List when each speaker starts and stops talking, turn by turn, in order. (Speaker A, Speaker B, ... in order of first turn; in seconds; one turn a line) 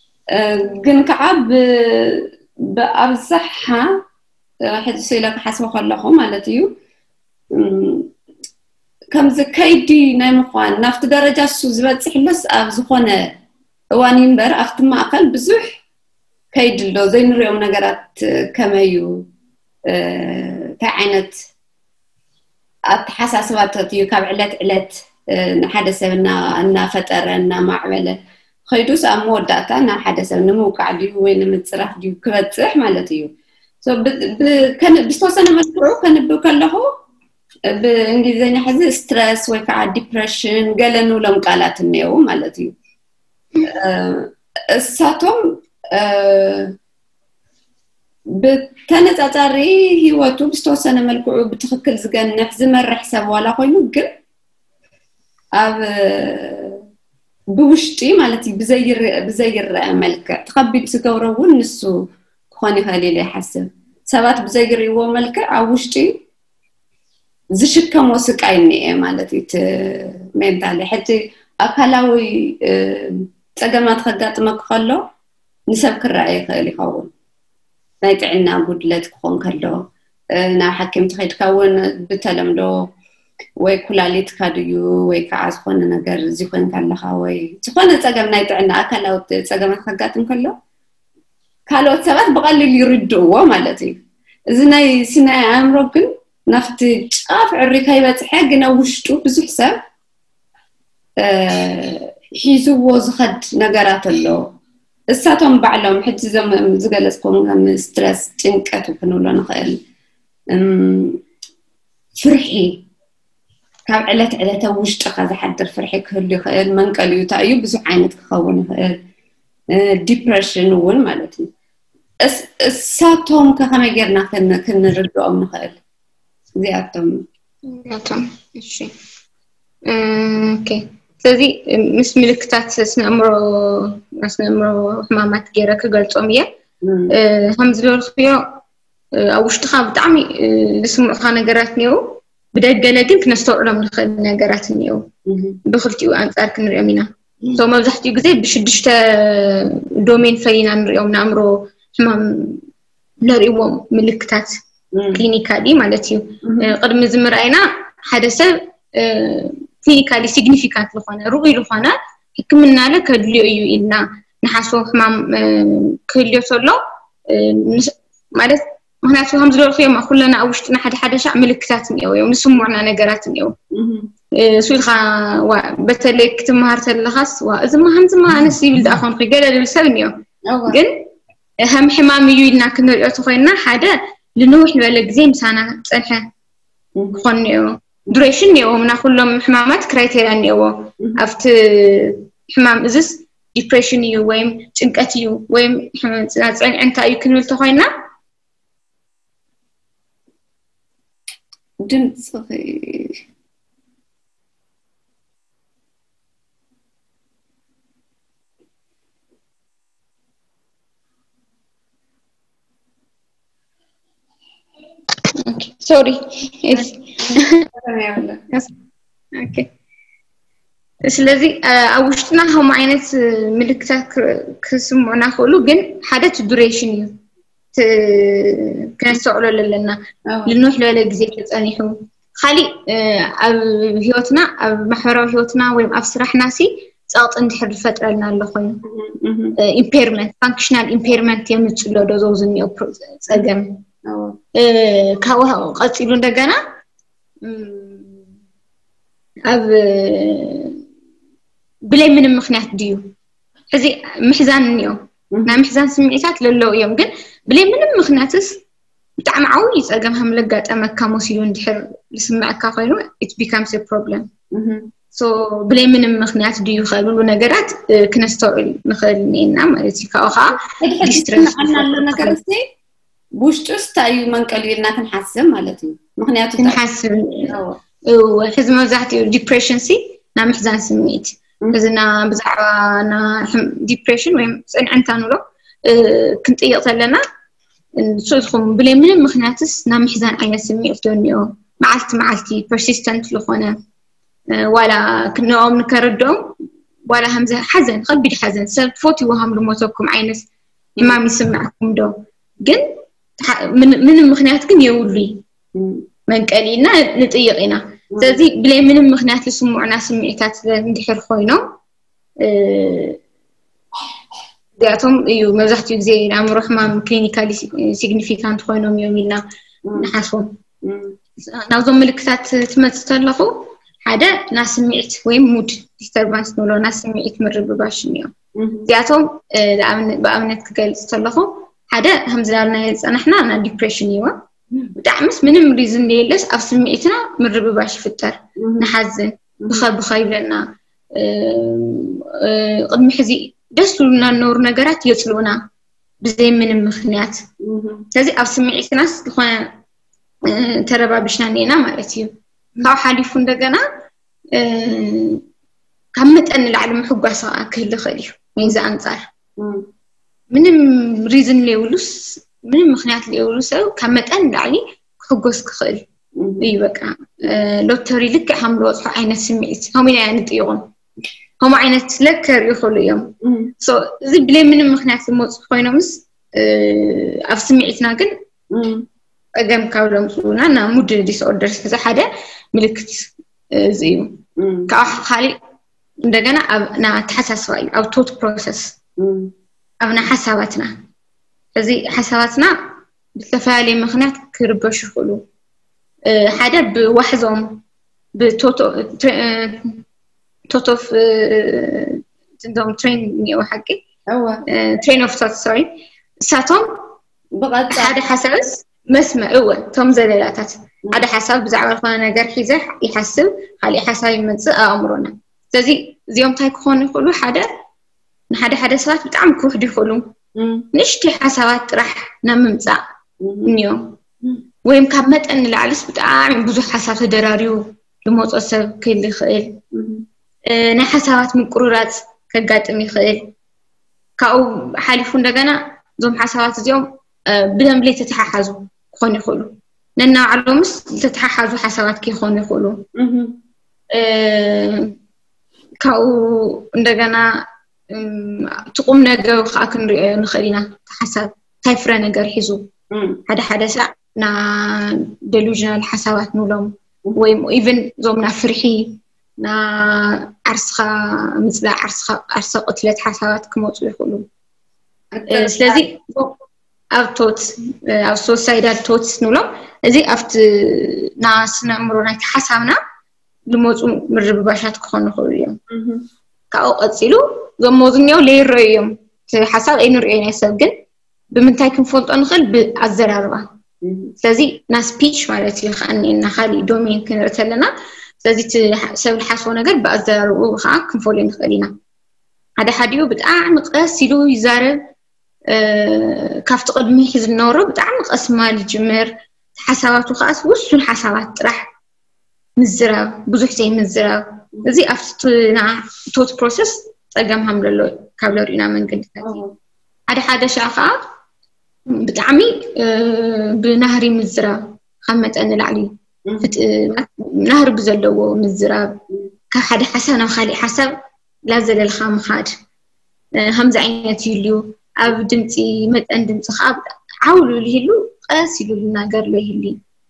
Speaker A: 0.3-4.0
Speaker A: 4.7-6.8
Speaker A: 7.5-8.1
Speaker A: 9.1-13.3
Speaker A: 13.9-15.8
Speaker A: 16.5-19.2
Speaker A: 19.9-21.3
Speaker A: 22.9-36.9
Speaker A: 37.7-42.7
Speaker A: 43.6-45.4
Speaker A: 45.9-46.7
Speaker A: 48.4-54.1
Speaker A: 55.6-56.8
Speaker A: 57.5-62.0
Speaker A: 62.5-66.2
Speaker A: 67.6-75.0
Speaker A: 75.7-77.1
Speaker A: 78.0-82.9
Speaker A: 83.6-90.6
Speaker A: 91.7-94.0
Speaker A: 94.5-99.8
Speaker A: 101.2-104.4
Speaker A: 105.1-109.8
Speaker A: 110.5-111.2
Speaker A: 112.2-112.8
Speaker A: 113.9-119.0
Speaker A: 119.7-121.5
Speaker A: 122.2-125.8
Speaker A: 126.6-127.2
Speaker B: 127.7-128.9
Speaker B: 129.9-136.5
Speaker A: 136.8-137.1
Speaker B: 137.1-138.6
Speaker B: 139.3-145.1
Speaker A: 145.3-145.6
Speaker B: 145.7-152.6
Speaker B: 153.2-154.6
Speaker A: 154.9-155.2
Speaker B: 155.1-173.6
Speaker A: 156.4-156.7
Speaker A: 173.7-174.1
Speaker B: 174.4-180.2
Speaker A: 180.5-180.8
Speaker B: 180.7-181.0
Speaker B: 181.6-186.3
Speaker A: 187.0-187.2
Speaker B: 187.2-197.9
Speaker A: 201.8-203.2
Speaker B: 215.4-217.7
Speaker A: 216.7-218.4
Speaker B: 219.3-219.7
Speaker B: 221.1-227.2
Speaker B: 227.7-238.8
Speaker A: 230.3-230.6
Speaker A: 238.9-239.6
Speaker B: 239.6-243.8
Speaker A: 244.1-244.4
Speaker B: 244.6-246.6
Speaker B: 247.4-248.2
Speaker B: 249.5-250.8
Speaker B: 251.9-253.1
Speaker B: 253.7-258.6
Speaker B: 259.2-264.3
Speaker A: 264.5-264.9
Speaker B: 265.1-272.4
Speaker A: 270.6-272.7
Speaker A: 273.4-276.8
Speaker B: 276.6-277.6
Speaker A: 277.5-277.8
Speaker B: 278.1-287.2
Speaker B: 288.0-293.8
Speaker B: 294.5-296.6
Speaker B: 297.1-300.5
Speaker B: 301.0-305.4
Speaker A: 305.8-306.1
Speaker B: 306.3-311.6
Speaker A: 308.1-308.4
Speaker B: 312.4-313.2
Speaker B: 314.8-319.4
Speaker A: 319.9-320.1
Speaker B: 320.0-320.6
Speaker A: 320.8-321.2
Speaker B: 321.5-328.3
Speaker A: 328.6-328.9
Speaker B: 328.9-334.4
Speaker B: 335.0-345.7
Speaker A: 338.6-338.9
Speaker B: 346.2-347.4
Speaker A: 347.6-348.1
Speaker B: 348.1-349.7
Speaker B: 350.5-353.8
Speaker B: 354.6-355.4
Speaker B: 356.2-359.3
Speaker A: 359.6-359.9
Speaker B: 360.5-366.0
Speaker A: 366.4-366.7
Speaker B: 366.6-370.9
Speaker B: 371.6-378.3
Speaker A: 373.4-373.7
Speaker A: 378.7-379.1
Speaker B: 379.6-384.4
Speaker A: 384.6-384.9
Speaker B: 384.9-385.6
Speaker B: 386.3-389.0
Speaker A: 389.2-389.5
Speaker B: 390.0-390.9
Speaker B: 391.8-392.8
Speaker B: 393.4-395.4
Speaker B: 396.3-397.8
Speaker B: 398.4-400.0
Speaker B: 400.7-404.0
Speaker A: 404.3-404.6
Speaker B: 404.7-406.9
Speaker A: 407.6-408.2
Speaker B: 407.9-417.7
Speaker B: 418.5-420.3
Speaker A: 420.6-420.9
Speaker B: 420.9-423.0
Speaker A: 423.4-423.7
Speaker B: 423.6-424.2
Speaker B: 424.9-429.8
Speaker A: 429.9-430.2
Speaker B: 430.7-433.5
Speaker B: 434.4-443.0
Speaker A: 443.2-443.6
Speaker B: 444.1-445.1
Speaker B: 446.0-447.5
Speaker B: 448.1-452.9
Speaker A: 453.1-453.4
Speaker B: 453.5-464.5
Speaker A: 465.3-466.0
Speaker B: 465.5-466.6
Speaker B: 467.1-473.0
Speaker B: 473.7-475.8
Speaker A: 475.9-476.2
Speaker B: 476.7-480.9
Speaker B: 481.5-483.7
Speaker A: 484.0-484.3
Speaker B: 484.4-487.9
Speaker B: 488.4-492.0
Speaker B: 492.8-495.0
Speaker B: 495.7-501.9
Speaker B: 502.8-509.6
Speaker A: 509.4-509.7
Speaker B: 510.3-511.2
Speaker B: 512.1-519.2
Speaker A: 516.5-516.7
Speaker B: 519.7-521.2
Speaker B: 521.7-522.8
Speaker B: 523.6-530.0